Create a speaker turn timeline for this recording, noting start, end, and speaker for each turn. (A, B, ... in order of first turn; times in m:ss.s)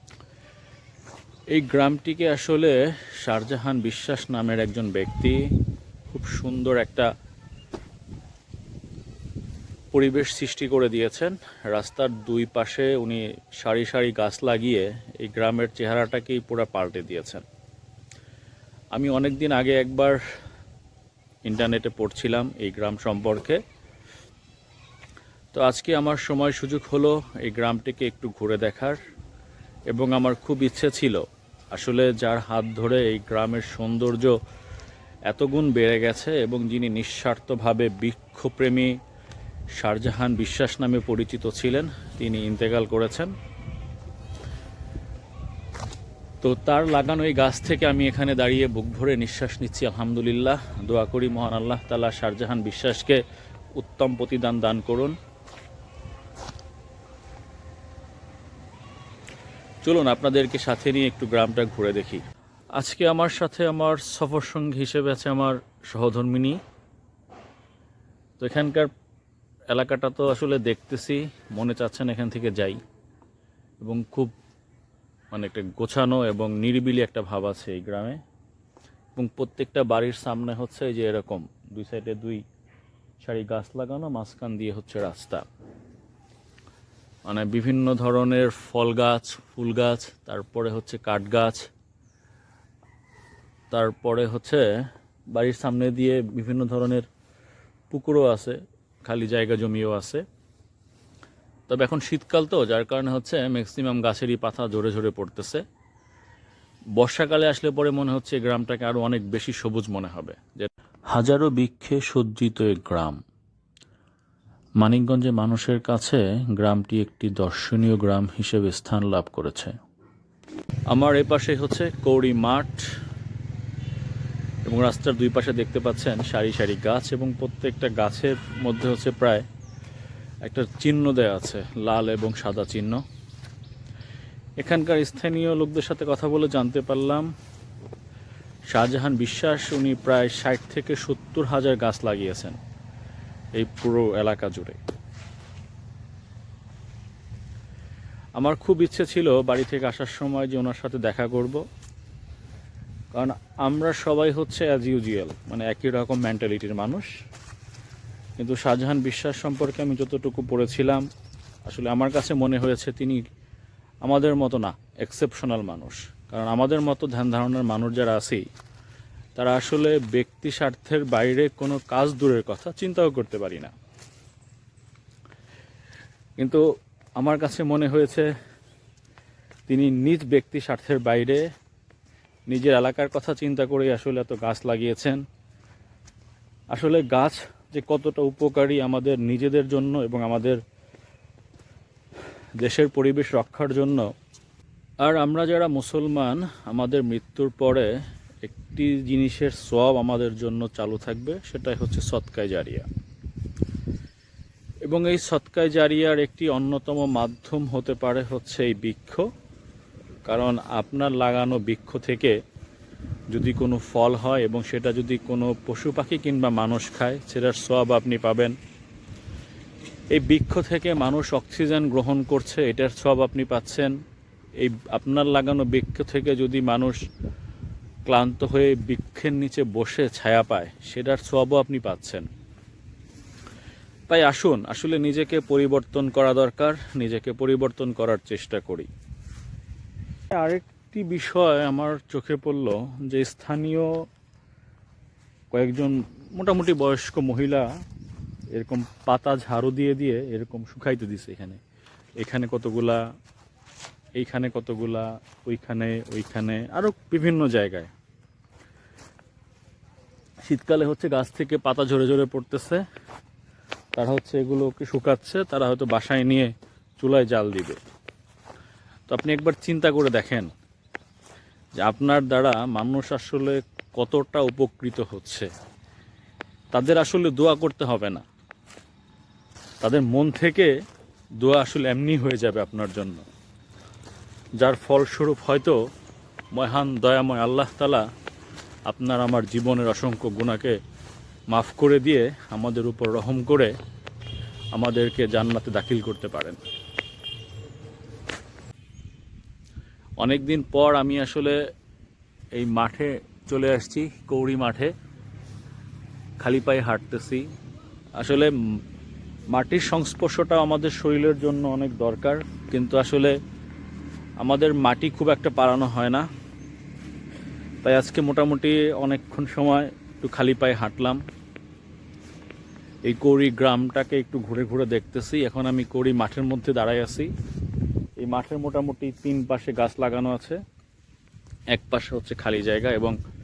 0:01.5-0:05.4 A
0:06.1-0:07.1 A
0:09.9-0:17.4 A
0:18.9-0:20.2 A
0:21.4-0:23.6 A
0:25.5-0:29.0 A
0:29.9-0:34.4 A
0:35.3-0:38.9 A
0:39.7-0:43.3 A
0:46.4-0:53.2 A
0:53.8-0:55.2 A
0:59.8-1:02.2 A
1:02.7-1:06.6 A
1:08.4-1:08.9 A
1:09.7-1:12.8 A
1:13.8-1:14.3 A
1:15.3-1:18.2 A
1:19.2-1:22.4 A
1:23.2-1:25.4 A
1:27.2-1:31.6 A
1:33.7-1:34.6 A
1:35.3-1:37.0 A
1:37.9-1:40.2 A
1:41.7-1:45.6 A
1:47.0-1:53.2 A
1:54.8-1:59.7 A
2:00.9-2:02.8 A
2:04.6-2:09.4 A
2:10.4-2:13.0 A
2:14.6-2:17.3 A
2:18.7-2:22.6 A
2:23.5-2:24.8 A
2:28.4-2:31.6 A
2:33.1-2:37.1 A
2:38.4-2:41.0 A
2:41.6-2:43.2 A
2:44.0-2:48.4 A
2:49.4-2:53.7 A
2:56.4-2:56.6 A
2:57.2-2:58.3 A
2:59.7-3:01.4 A
3:02.5-3:05.2 A
3:06.7-3:10.6 A
3:12.6-3:14.1 A
3:15.0-3:17.9 A
3:18.4-3:22.8 A
3:24.8-3:29.2 A
3:30.2-3:32.4 A
3:33.3-3:38.5 A
3:40.1-3:43.9 A
3:44.6-3:47.0 A
3:48.0-3:52.2 A
3:54.1-3:58.9 A
4:00.4-4:03.9 A
4:05.5-4:07.7 A
4:08.5-4:11.6 A
4:12.2-4:13.0 A
4:14.2-4:17.9 A
4:20.4-4:22.8 A
4:24.0-4:27.8 A
4:29.1-4:30.5 A
4:31.8-4:35.5 A
4:36.7-4:38.2 A
4:39.8-4:40.7 A
4:41.4-4:43.2 A
4:44.6-4:45.8 A
4:46.5-4:48.0 A
4:48.9-4:50.8 A
4:51.5-4:53.7 A
4:54.7-4:56.6 A
5:00.2-5:01.6 A
5:02.5-5:04.9 A
5:06.4-5:07.5 A
5:08.2-5:08.5 A
5:09.5-5:13.4 A
5:14.4-5:16.2 A
5:17.8-5:21.2 A
5:23.0-5:27.3 A
5:28.2-5:30.6 A
5:31.7-5:33.2 A